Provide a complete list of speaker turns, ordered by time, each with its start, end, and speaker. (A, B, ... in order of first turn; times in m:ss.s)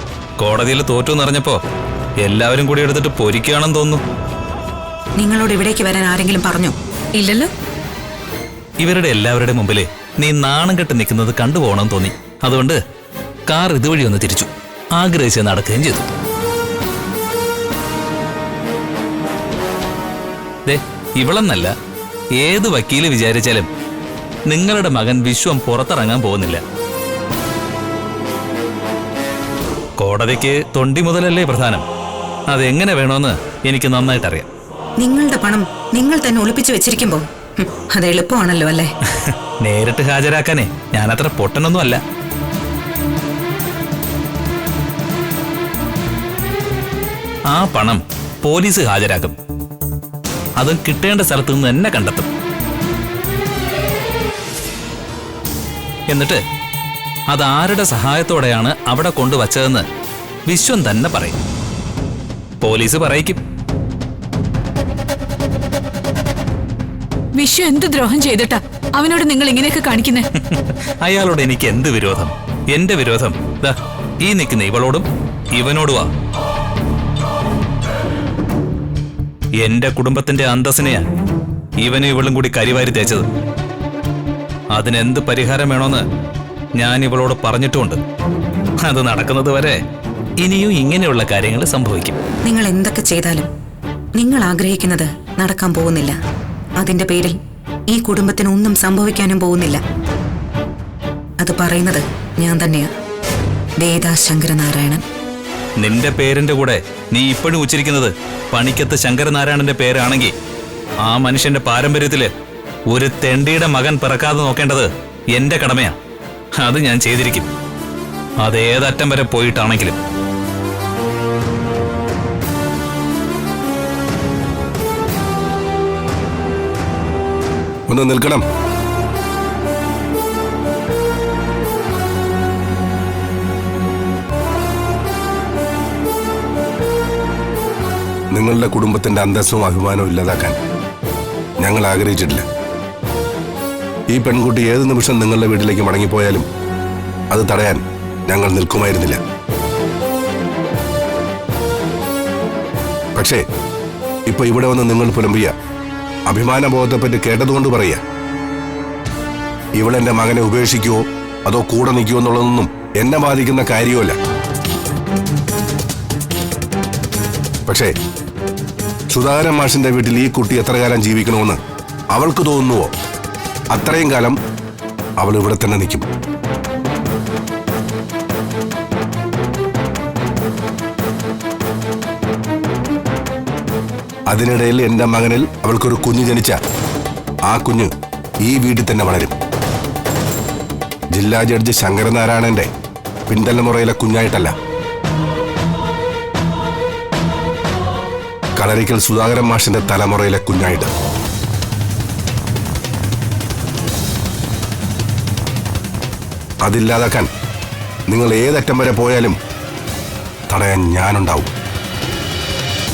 0:00.4-0:01.6 A
0:02.2-0:04.0 A
0:05.2-0:07.5 B
0:08.8-0:12.8 A
0:13.5-0:16.1 A
0:20.7-0:21.7 A
0:22.4-0:23.7 A
0:24.5-0:26.6 A
0:30.0-0:31.8 A
0:32.5-0:34.5 A
0:35.0-0:38.9 B
0:39.1-0:42.0 A
0:47.5-0:49.4 A
0:50.6-0:52.3 A
0:56.1-0:56.4 A
0:57.3-0:59.9 A
1:00.5-1:01.4 A
1:02.6-1:03.4 A
1:07.4-1:10.3 C
1:10.3-1:16.1 A
1:19.6-1:21.1 A
1:21.8-1:23.3 A
1:24.7-1:26.0 A
1:26.8-1:28.0 A
1:28.8-1:29.8 A
1:30.4-1:32.2 A
1:32.4-1:33.5 B
1:34.2-1:36.2 B
1:36.8-1:37.4 B
1:37.9-1:39.8 B
1:41.4-1:42.9 B
1:43.8-1:45.0 B
1:45.8-1:50.3 A
1:51.0-1:52.3 A
1:52.9-1:56.0 A
1:56.6-1:57.5 A
1:58.4-2:00.0 A
2:07.9-2:08.4 D
2:18.3-2:20.6 D
2:21.6-2:22.4 D
2:24.1-2:26.5 D
2:27.3-2:29.2 D
2:33.2-2:33.4 D
2:34.3-2:35.5 D
2:36.3-2:38.0 D
2:39.8-2:44.2 D
2:47.7-2:47.9 D
2:49.1-2:51.6 D
2:52.1-2:52.9 D
2:53.7-2:54.4 D
2:55.2-2:56.1 D
3:04.3-3:06.6 D
3:07.5-3:07.9 D
3:08.4-3:09.3 D
3:11.1-3:12.7 D
3:13.3-3:14.5 D
3:18.6-3:20.9 D
3:26.6-3:27.3 D
3:28.1-3:29.4 D
3:30.5-3:31.5 D